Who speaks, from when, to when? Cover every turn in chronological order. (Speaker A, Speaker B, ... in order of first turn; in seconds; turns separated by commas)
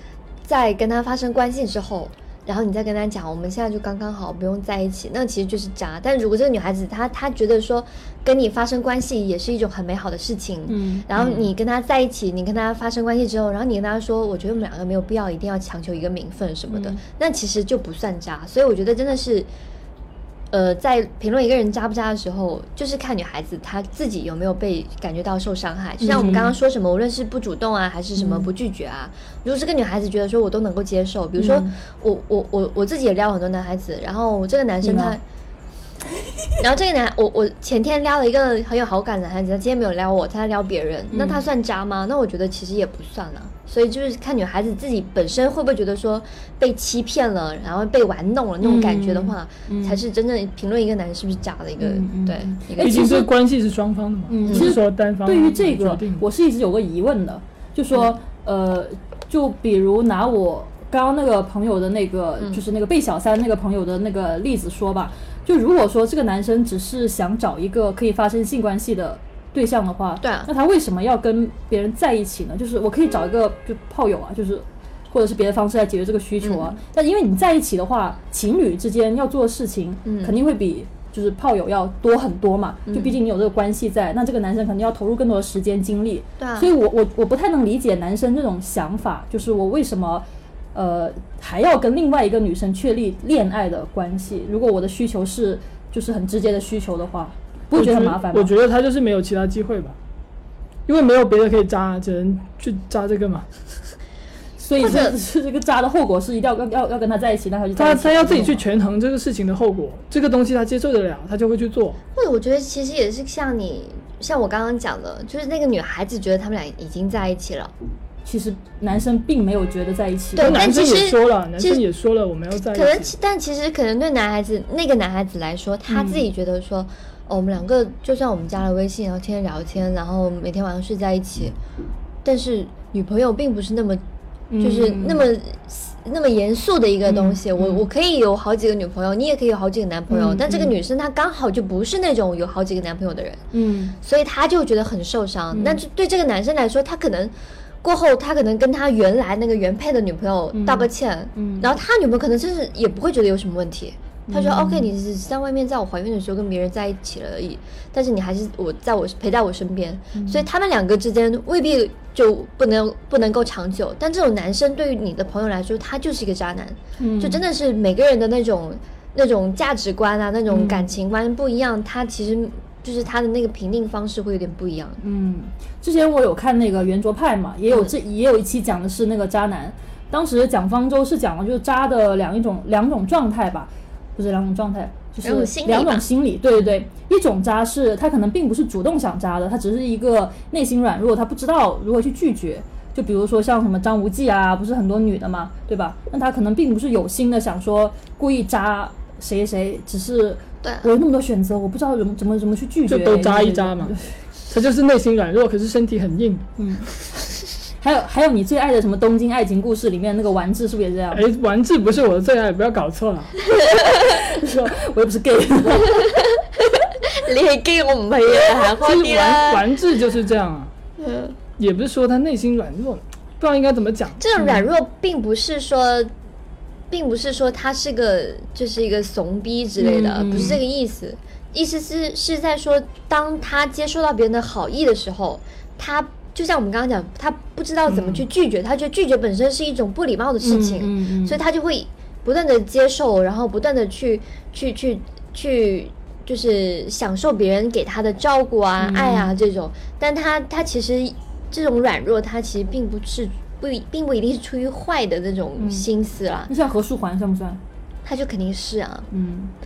Speaker A: 0.5-19.5, Speaker B: 10.7-11.5, Speaker B: 16.7-17.0, Speaker A: 20.5-35.2, Speaker B: 26.0-26.6, Speaker B: 28.2-28.5, Speaker B: 31.4-31.8, Speaker B: 34.8-35.2, Speaker A: 36.6-53.3, Speaker B: 41.1-41.4, Speaker B: 48.6-50.0, Speaker B: 51.8-53.3, Speaker C: 52.8-56.2, Speaker B: 54.3-90.2, Speaker A: 54.5-54.8, Speaker A: 70.2-70.5, Speaker A: 76.4-76.7, Speaker A: 80.0-80.4, Speaker A: 82.9-83.2, Speaker A: 86.4-86.7, Speaker B: 90.8-98.5, Speaker C: 97.7-100.0, Speaker C: 100.9-103.5, Speaker B: 104.6-108.6, Speaker A: 104.8-105.2, Speaker C: 107.8-112.0, Speaker A: 112.2-117.7, Speaker B: 118.2-120.6, Speaker A: 120.4-121.8, Speaker C: 120.4-123.1, Speaker A: 122.7-131.6, Speaker B: 125.9-126.2, Speaker A: 132.2-134.0, Speaker B: 134.5-135.3, Speaker A: 134.6-143.4, Speaker B: 137.1-137.9, Speaker B: 140.1-140.7, Speaker B: 143.5-144.0, Speaker A: 144.0-175.0, Speaker B: 145.5-145.8, Speaker B: 150.5-151.7, Speaker B: 154.3-154.9, Speaker B: 160.2-160.4, Speaker B: 167.0-167.4, Speaker B: 170.5-170.9, Speaker B: 175.0-204.1, Speaker A: 185.2-186.1, Speaker A: 200.6-200.9, Speaker C: 202.9-203.9, Speaker C: 204.5-206.4, Speaker B: 206.6-206.9, Speaker B: 207.8-211.2, Speaker C: 211.1-213.3, Speaker A: 213.5-214.1, Speaker B: 214.0-216.0, Speaker A: 215.8-219.7, Speaker C: 218.8-220.7, Speaker A: 221.0-221.4, Speaker C: 221.6-224.2, Speaker A: 224.2-226.1, Speaker B: 224.4-224.7, Speaker A: 226.9-256.5, Speaker B: 229.8-230.6, Speaker B: 237.9-238.2, Speaker B: 240.4-241.4, Speaker B: 248.8-249.3, Speaker B: 255.6-255.9, Speaker B: 256.5-257.6, Speaker A: 258.1-259.1, Speaker B: 259.1-259.5